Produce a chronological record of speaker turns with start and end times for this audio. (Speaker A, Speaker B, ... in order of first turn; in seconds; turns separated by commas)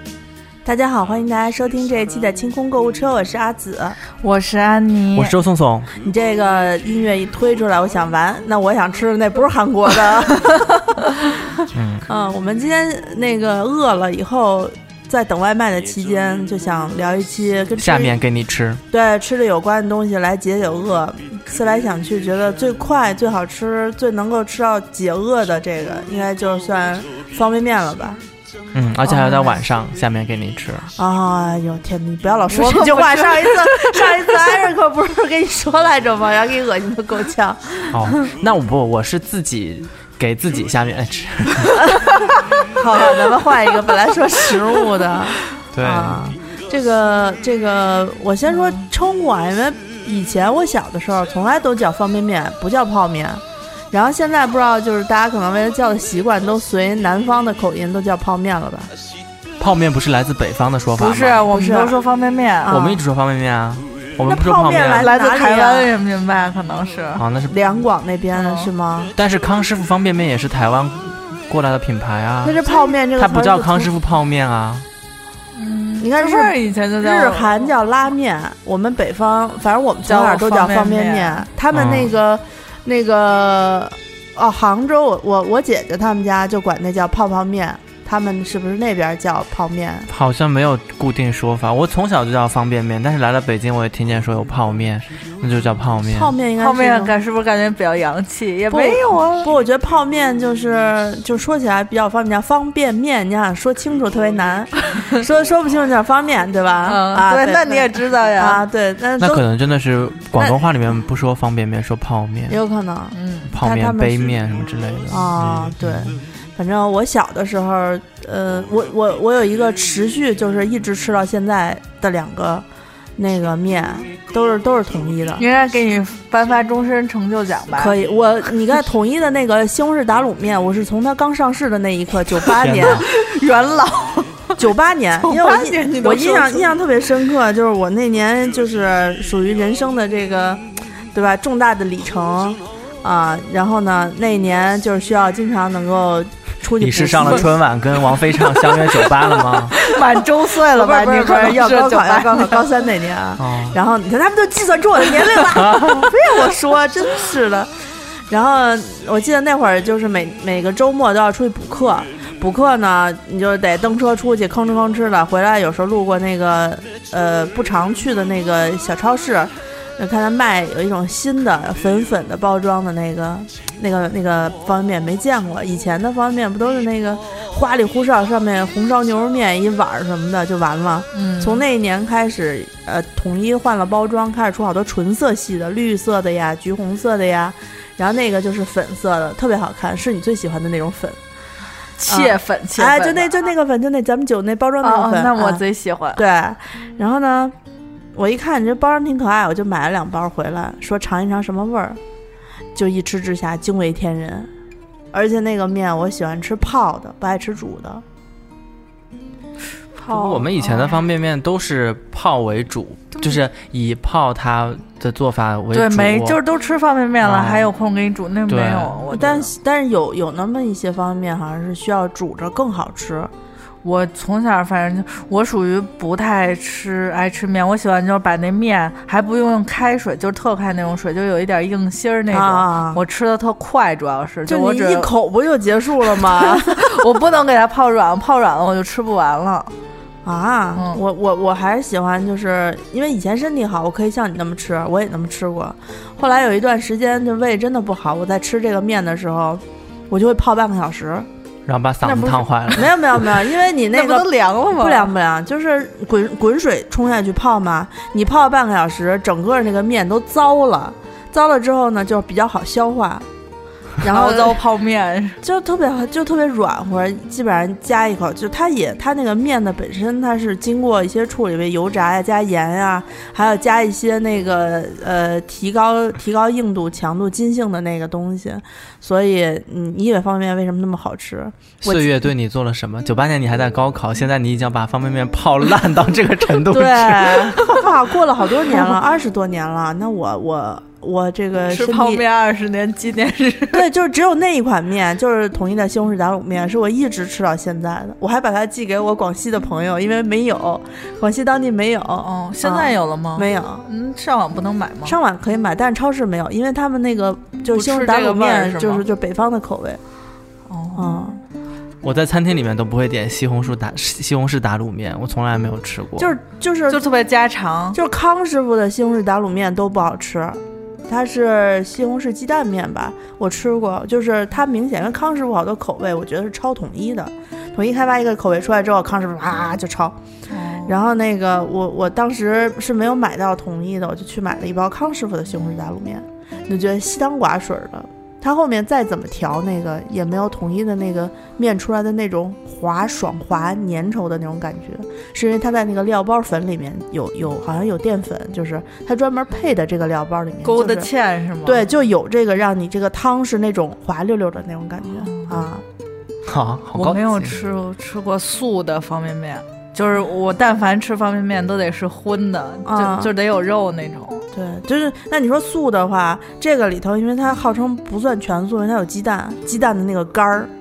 Speaker A: 0.6-4.0, Speaker B: 4.2-5.3, Speaker C: 5.2-5.9, Speaker A: 6.0-10.7, Speaker C: 11.7-12.1, Speaker A: 12.1-18.2, Speaker C: 17.8-18.8, Speaker A: 18.9-28.2, Speaker C: 28.7-30.9, Speaker A: 29.1-29.5, Speaker A: 31.0-38.1, Speaker B: 32.5-34.6, Speaker C: 37.9-41.8, Speaker A: 42.6-58.9, Speaker C: 45.7-46.4, Speaker C: 59.6-61.5, Speaker B: 61.0-62.9, Speaker A: 61.5-61.9, Speaker A: 62.7-63.0, Speaker C: 62.7-65.1, Speaker A: 64.2-65.9, Speaker B: 64.9-67.3, Speaker C: 67.2-67.5, Speaker A: 67.5-69.1, Speaker B: 68.3-68.7, Speaker C: 69.2-72.6, Speaker A: 72.4-73.9, Speaker C: 73.2-74.9, Speaker B: 75.5-77.7, Speaker A: 76.0-90.1, Speaker B: 80.1-81.5, Speaker C: 81.7-82.1, Speaker C: 90.1-96.3, Speaker A: 96.1-97.2, Speaker B: 96.6-99.5, Speaker A: 98.7-109.5, Speaker B: 106.9-108.7, Speaker C: 109.2-112.6, Speaker A: 112.5-114.4, Speaker B: 113.1-113.5, Speaker C: 113.5-116.2, Speaker A: 115.1-122.7, Speaker A: 123.2-125.5, Speaker B: 125.4-128.0, Speaker A: 127.7-133.1, Speaker C: 132.6-133.1, Speaker B: 132.8-134.6, Speaker A: 134.6-147.5, Speaker B: 135.2-136.8, Speaker C: 146.8-149.8, Speaker B: 148.6-152.7, Speaker A: 150.7-157.7, Speaker C: 153.4-153.8, Speaker C: 155.5-156.1, Speaker A: 158.3-191.2, Speaker B: 181.1-181.6, Speaker B: 192.0-193.3, Speaker A: 192.1-195.6, Speaker B: 194.8-196.2, Speaker A: 196.2-197.6, Speaker A: 198.2-202.0, Speaker A: 202.8-204.5, Speaker A: 205.1-208.0, Speaker B: 209.9-211.0, Speaker C: 210.1-216.4, Speaker B: 215.7-219.5, Speaker C: 217.2-217.7, Speaker C: 218.5-219.0, Speaker A: 219.1-223.3, Speaker B: 223.8-235.1, Speaker A: 232.3-233.0, Speaker A: 234.5-236.8, Speaker B: 236.1-239.7, Speaker A: 240.2-251.3, Speaker C: 251.7-252.9, Speaker A: 252.0-263.3, Speaker B: 253.9-255.1, Speaker B: 264.0-265.4, Speaker A: 264.0-264.6, Speaker A: 265.4-282.2, Speaker C: 281.8-287.6, Speaker A: 286.7-292.2, Speaker B: 291.7-293.9, Speaker A: 293.7-303.9, Speaker B: 302.2-305.2, Speaker A: 305.1-310.0, Speaker B: 307.8-309.0, Speaker B: 310.7-311.2, Speaker A: 310.9-311.4, Speaker C: 312.0-316.3, Speaker A: 316.2-317.0, Speaker B: 316.9-318.0, Speaker A: 317.9-330.2, Speaker B: 330.5-330.9, Speaker A: 330.9-351.1, Speaker B: 350.6-351.9, Speaker A: 351.6-355.8, Speaker B: 355.2-355.7, Speaker C: 356.4-357.6, Speaker B: 357.0-364.5, Speaker A: 362.9-363.3, Speaker A: 364.5-370.7